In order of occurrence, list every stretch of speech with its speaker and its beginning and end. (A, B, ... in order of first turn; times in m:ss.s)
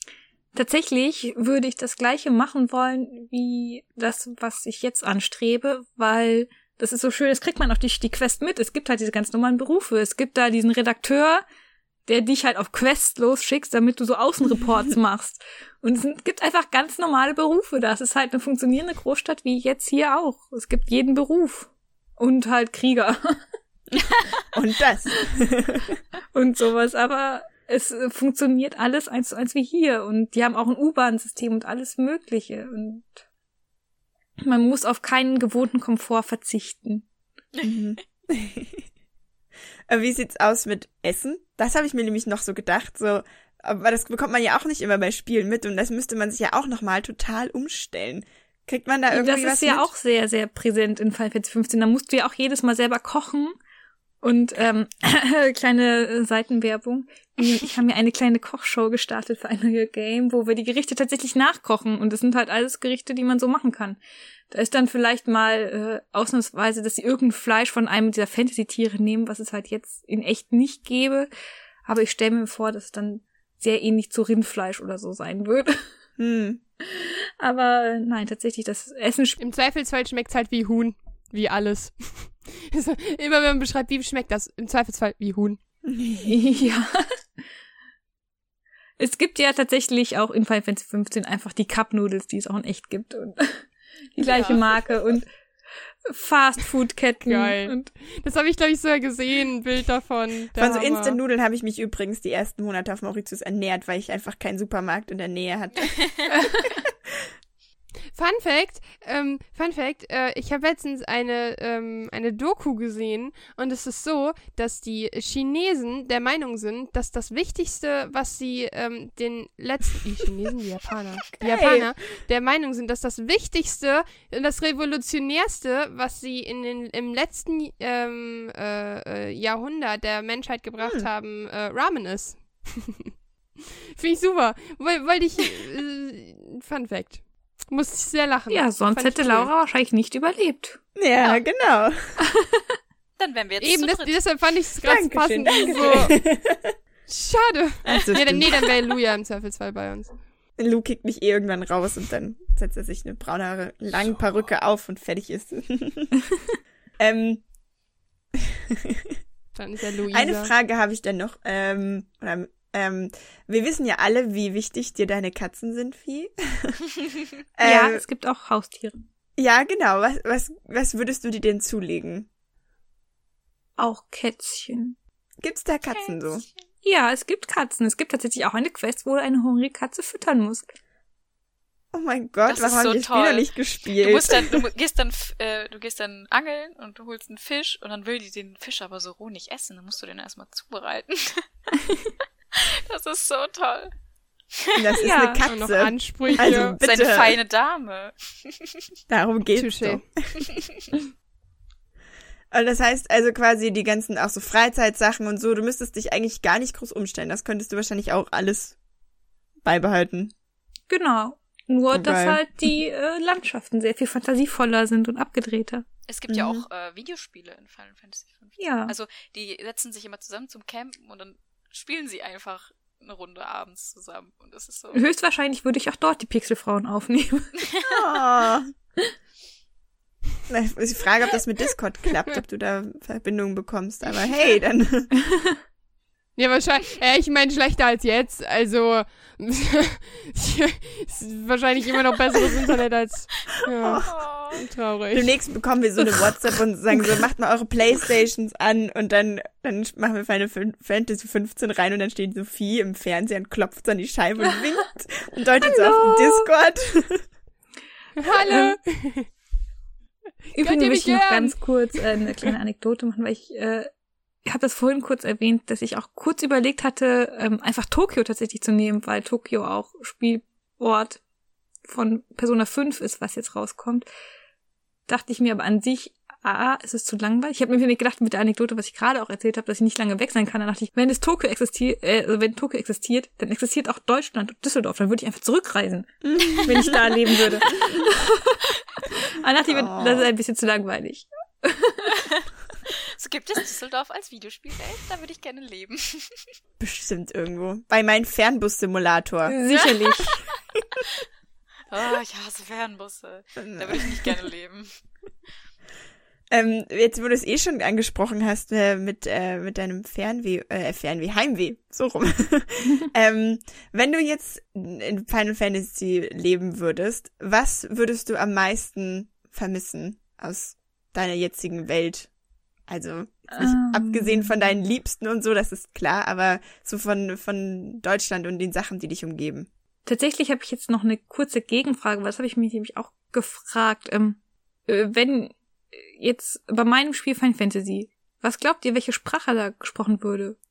0:00.5-0:11.4 A
0:12.1-0:23.4 A
0:24.5-0:26.0 B
0:26.3-0:33.2 A
0:34.4-0:37.0 A
0:37.6-0:38.8 B
0:39.9-0:49.9 B
0:49.1-0:53.6 A
0:54.2-1:04.0 A
1:04.5-1:11.3 A
1:11.8-1:15.8 A
1:16.2-1:16.6 B
1:16.8-1:19.4 A
1:19.4-1:25.6 C
1:25.8-1:26.4 B
1:26.2-1:27.0 A
1:29.0-1:35.3 A
1:34.2-1:34.6 D
1:36.1-1:37.9 A
1:37.2-1:41.2 C
1:40.6-1:46.0 B
1:46.4-1:46.7 A
1:46.9-1:47.3 B
1:48.1-2:13.1 C
2:01.3-2:01.9 B
2:10.8-2:11.1 B
2:14.0-2:19.5 C
2:18.5-2:20.8 A
2:21.0-2:22.2 B
2:23.2-2:24.2 D
2:23.6-2:26.1 C
2:24.8-2:26.8 B
2:27.1-2:30.1 C
2:27.8-2:28.6 B
2:30.6-2:36.1 B
2:37.0-2:37.4 B
2:38.7-2:39.1 B
2:39.5-2:40.5 C
2:40.1-2:46.8 B
2:47.6-2:48.0 B
2:47.6-2:49.0 A
2:49.4-2:52.3 B
2:53.8-2:55.0 A
2:55.4-2:56.4 B
2:55.9-2:56.5 D
2:56.8-3:00.7 A
3:01.9-3:04.6 B
3:02.5-3:11.5 D
3:12.5-3:13.9 D
3:14.6-3:15.0 D
3:14.7-3:17.4 B
3:15.0-3:15.4 A
3:15.5-3:16.8 C
3:16.8-3:18.8 D
3:19.1-3:20.5 B
3:19.6-3:20.0 C
3:20.4-3:20.9 D
3:22.5-3:28.8 B
3:29.6-3:30.3 B
3:30.9-3:35.8 A
3:31.9-3:32.4 B
3:36.1-3:45.0 D
3:36.3-3:36.6 B
3:38.6-3:38.9 A
3:44.9-3:47.6 A
3:47.7-3:48.0 D
3:47.9-3:48.7 B
3:50.5-3:55.1 B
3:56.4-4:05.3 C
4:03.8-4:04.2 B
4:04.0-4:04.6 D
4:05.1-4:17.2 B
4:06.0-4:07.2 A
4:15.6-4:16.5 A
4:18.2-4:19.3 C
4:18.2-4:18.8 A
4:20.5-4:22.0 C
4:20.5-4:23.9 A
4:24.4-4:31.2 A
4:31.9-4:34.0 A
4:35.1-4:52.1 A
4:46.2-4:48.1 B
4:49.7-4:50.3 B
4:52.1-4:56.5 D
4:56.8-4:59.6 B
4:59.4-5:00.4 A
4:59.7-5:00.6 D
5:01.9-5:04.9 D
5:03.6-5:04.4 B
5:06.5-5:22.3 B
5:22.9-5:29.7 B
5:23.5-5:24.5 A
5:30.0-5:40.6 A